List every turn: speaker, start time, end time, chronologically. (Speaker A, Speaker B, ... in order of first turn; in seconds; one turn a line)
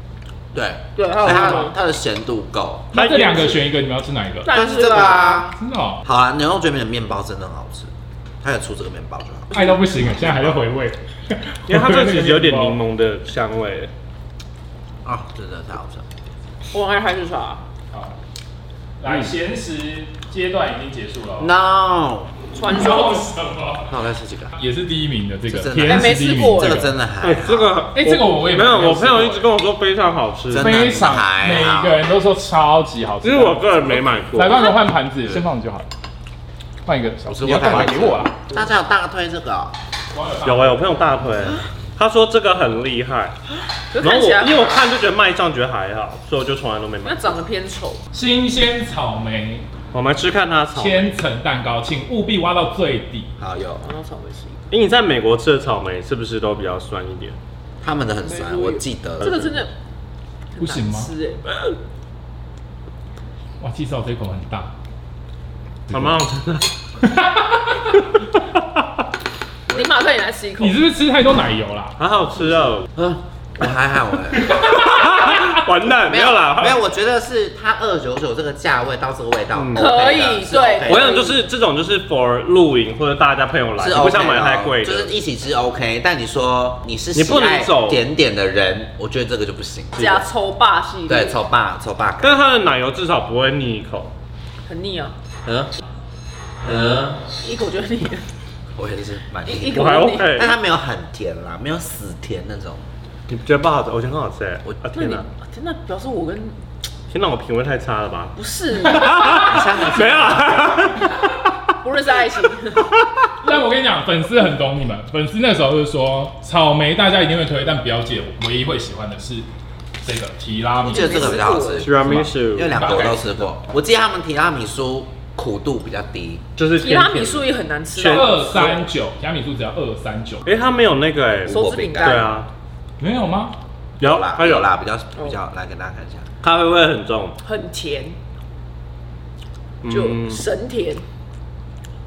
Speaker A: 0.5-2.9
Speaker B: 0.9-1.8
Speaker C: 2.9-3.7
Speaker D: 2.9-4.5
Speaker B: 4.4-5.5
Speaker A: 4.5-7.9
Speaker D: 5.6-6.0
Speaker A: 8.4-10.7
Speaker D: 9.5-12.8
Speaker C: 11.7-13.9
Speaker A: 15.0-16.0
Speaker B: 16.7-17.6
Speaker D: 19.0-21.5
Speaker C: 19.1-19.3
Speaker A: 21.4-22.4
Speaker B: 22.5-23.3
Speaker D: 22.7-24.0
Speaker A: 23.9-24.6
Speaker D: 24.6-26.9
Speaker A: 25.5-27.8
Speaker B: 25.8-26.8
Speaker C: 27.2-31.1
Speaker D: 27.9-29.5
Speaker A: 30.5-32.0
Speaker D: 30.6-35.9
Speaker C: 33.2-34.6
Speaker D: 36.9-38.3
Speaker A: 37.2-39.8
Speaker C: 37.4-38.1
Speaker D: 40.1-40.9
Speaker C: 40.4-43.4
Speaker B: 43.9-44.7
Speaker C: 44.0-47.2
Speaker B: 47.0-48.0
Speaker D: 48.1-49.6
Speaker C: 49.9-51.1
Speaker D: 50.8-53.3
Speaker A: 53.4-53.9
Speaker B: 53.8-54.6
Speaker C: 54.7-57.4
Speaker A: 57.8-59.4
Speaker B: 58.2-59.7
Speaker C: 59.2-59.5
Speaker B: 60.5-61.4
Speaker D: 60.6-61.1
Speaker D: 63.6-64.7
Speaker D: 65.9-66.1
Speaker C: 65.9-66.7
Speaker D: 67.1-67.7
Speaker B: 69.7-70.8
Speaker D: 70.6-72.0
Speaker C: 72.0-72.9
Speaker A: 72.9-74.6
Speaker D: 74.5-75.6
Speaker C: 74.5-76.8
Speaker A: 76.0-81.3
Speaker C: 79.5-79.9
Speaker B: 79.7-81.4
Speaker C: 80.8-85.1
Speaker A: 83.8-90.1
Speaker C: 87.1-88.1
Speaker C: 89.9-90.2
Speaker B: 90.0-91.4
Speaker A: 91.1-92.4
Speaker C: 92.2-94.1
Speaker B: 94.7-95.1
Speaker A: 95.5-95.7
Speaker A: 96.6-97.2
Speaker B: 97.3-98.2
Speaker A: 98.8-102.8
Speaker B: 99.4-100.5
Speaker C: 99.7-100.5
Speaker C: 103.3-105.2
Speaker B: 105.0-106.5
Speaker C: 107.1-111.3
Speaker B: 108.3-109.6
Speaker D: 109.2-109.5
Speaker A: 109.3-110.9
Speaker B: 111.8-112.9
Speaker D: 113.4-119.5
Speaker D: 120.0-121.5
Speaker A: 120.8-126.4
Speaker B: 120.8-121.9
Speaker C: 121.8-123.0
Speaker D: 122.7-123.3
Speaker C: 126.5-128.9
Speaker B: 126.8-128.6
Speaker D: 128.0-130.5
Speaker C: 130.4-132.5
Speaker B: 131.4-132.4
Speaker A: 131.5-132.3
Speaker D: 133.0-133.5
Speaker C: 134.0-134.7
Speaker A: 134.0-136.2
Speaker C: 136.4-137.4
Speaker B: 137.4-138.2
Speaker C: 139.8-140.4
Speaker B: 139.9-141.0